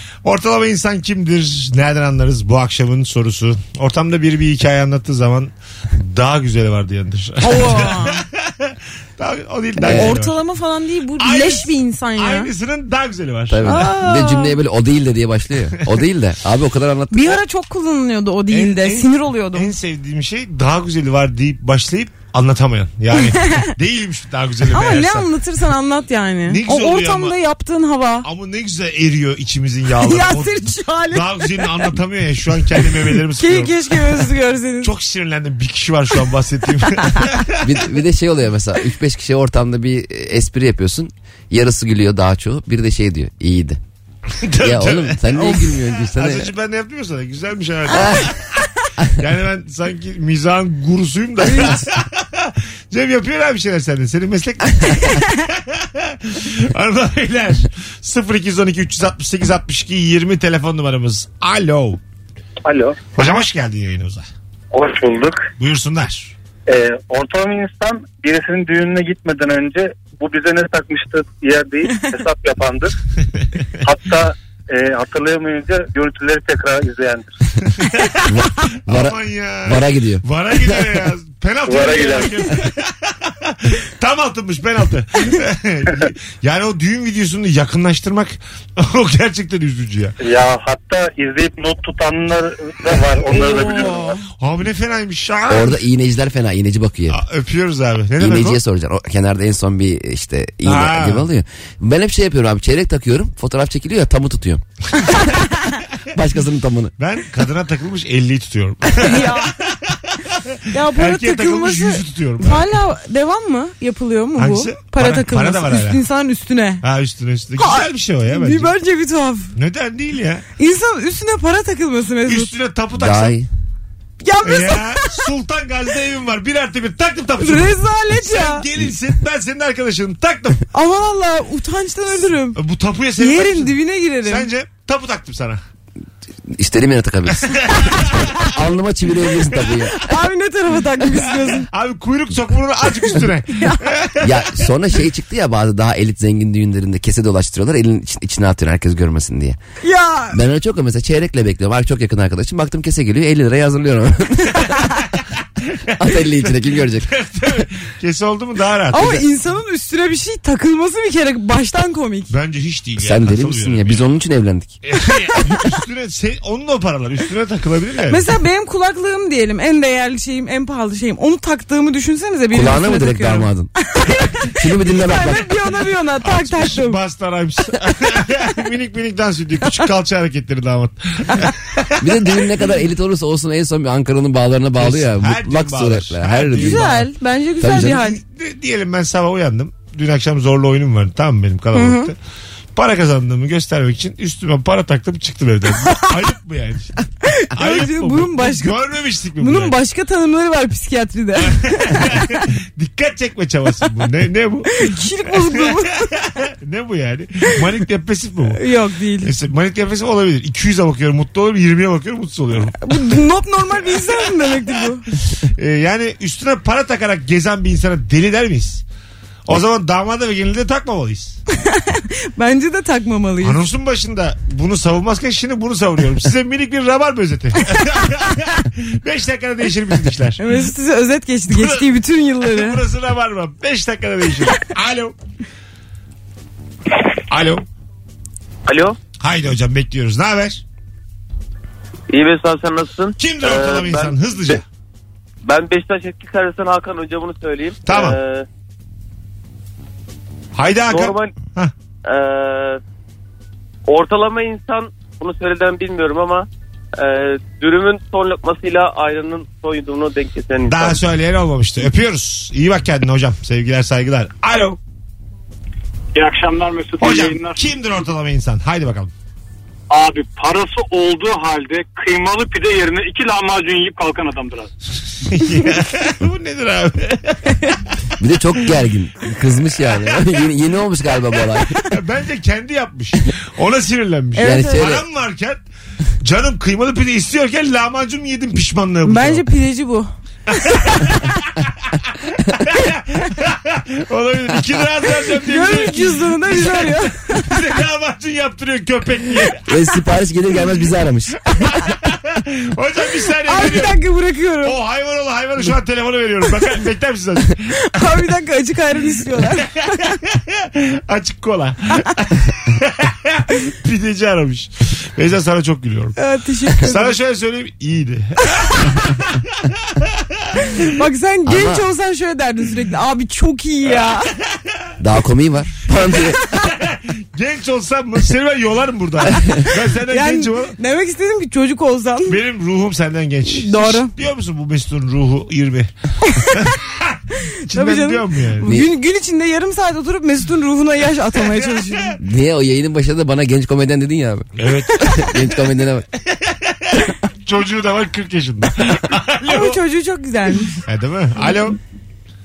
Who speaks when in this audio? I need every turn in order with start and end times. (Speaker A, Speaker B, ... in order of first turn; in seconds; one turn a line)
Speaker A: 0.2-10.3
Speaker B: 7.4-8.2
Speaker C: 9.8-10.2
Speaker B: 9.8-12.5
Speaker A: 11.2-13.8
Speaker C: 13.5-17.4
Speaker B: 13.6-14.6
Speaker B: 17.1-19.7
Speaker A: 18.5-25.3
Speaker B: 24.7-28.2
Speaker A: 26.5-27.3
Speaker A: 28.2-30.5
Speaker B: 30.0-31.9
Speaker A: 31.1-34.2
Speaker B: 33.3-34.9
Speaker A: 34.8-37.7
Speaker C: 37.6-43.8
Speaker A: 44.4-48.5
Speaker C: 44.6-46.5
Speaker C: 47.9-48.3
Speaker A: 49.2-62.0
Speaker B: 51.4-51.9
Speaker D: 62.6-63.0
Speaker A: 63.1-64.2
Speaker D: 64.7-65.5
Speaker A: 65.6-66.3
Speaker D: 66.7-72.9
Speaker D: 73.8-77.3
Speaker A: 77.8-78.3
Speaker C: 78.2-80.8
Speaker A: 78.9-90.1
Speaker D: 81.7-82.3
Speaker D: 90.2-94.1
Speaker A: 93.4-95.8
Speaker B: 93.4-94.2
Speaker C: 95.5-97.2
Speaker A: 97.1-98.6
Speaker C: 98.2-104.6
Speaker A: 100.6-101.3
Speaker C: 106.1-106.9
Speaker A: 107.0-112.7
Speaker B: 109.0-109.5
Speaker B: 110.7-116.8
Speaker A: 114.3-116.0
Speaker A: 116.8-118.7
Speaker B: 117.6-119.5
Speaker A: 119.5-120.4
Speaker B: 120.6-122.5
Speaker A: 122.2-123.3
Speaker C: 122.9-123.5
Speaker B: 124.2-125.2
Speaker A: 124.4-130.6
Speaker B: 127.4-128.6
Speaker B: 130.7-132.6
Speaker A: 132.5-135.6
Speaker B: 133.2-134.5
Speaker C: 136.5-140.1
Speaker A: 137.4-138.3
Speaker B: 139.9-141.7
Speaker A: 141.4-144.4
Speaker B: 143.6-143.8
Speaker C: 144.2-149.6
Speaker B: 149.8-150.4
Speaker C: 150.3-154.8
Speaker A: 155.9-159.2
Speaker C: 156.0-157.1
Speaker B: 158.9-162.3
Speaker A: 162.3-164.0
Speaker C: 163.0-164.8
Speaker A: 164.8-168.2
Speaker B: 168.1-177.0
Speaker C: 172.5-173.7
Speaker C: 174.4-175.5
Speaker A: 176.2-182.3
Speaker C: 182.0-187.1
Speaker A: 184.8-187.0
Speaker B: 186.5-188.2
Speaker C: 187.6-188.0
Speaker A: 187.8-192.2
Speaker B: 191.7-192.1
Speaker A: 192.7-199.7
Speaker B: 197.3-198.7
Speaker B: 199.4-202.4
Speaker A: 201.4-208.6
Speaker B: 204.8-206.0
Speaker B: 208.5-209.3
Speaker A: 209.2-213.0
Speaker B: 212.8-215.0
Speaker A: 215.6-218.8
Speaker A: 219.4-221.4
Speaker B: 221.6-223.6
Speaker A: 223.4-230.4
Speaker B: 230.4-232.8
Speaker A: 231.5-235.1
Speaker A: 237.3-237.7
Speaker E: 238.7-238.9
Speaker A: 239.2-240.6
Speaker E: 242.1-244.6
Speaker A: 243.2-244.6
Speaker E: 245.4-248.4
Speaker A: 247.9-248.2
Speaker A: 250.6-251.7
Speaker E: 250.9-251.3
Speaker E: 252.0-252.8
Speaker E: 253.9-261.0
Speaker A: 260.6-264.8
Speaker F: 266.1-267.7
Speaker A: 267.0-269.1
Speaker F: 269.9-274.7
Speaker A: 275.2-277.7
Speaker C: 278.2-281.7
Speaker A: 281.8-285.6
Speaker B: 284.4-284.9
Speaker C: 284.4-285.0
Speaker A: 286.2-289.5
Speaker B: 289.0-290.1
Speaker A: 290.5-299.6
Speaker B: 295.4-297.5
Speaker C: 299.7-301.4
Speaker A: 301.6-304.0
Speaker B: 303.4-304.8
Speaker A: 304.6-307.7
Speaker B: 307.7-310.1
Speaker A: 310.1-316.1
Speaker B: 316.1-317.1
Speaker A: 316.8-319.4
Speaker B: 320.9-324.3
Speaker C: 321.4-321.8
Speaker C: 325.0-326.4
Speaker A: 326.3-330.8
Speaker B: 330.1-332.4
Speaker A: 332.3-335.9
Speaker B: 333.6-334.1
Speaker A: 336.5-338.7
Speaker B: 337.7-342.2
Speaker A: 341.4-342.1
Speaker C: 342.2-346.1
Speaker A: 344.6-345.4
Speaker A: 346.5-346.7
Speaker A: 347.4-349.8
Speaker B: 349.5-350.8
Speaker A: 350.8-351.8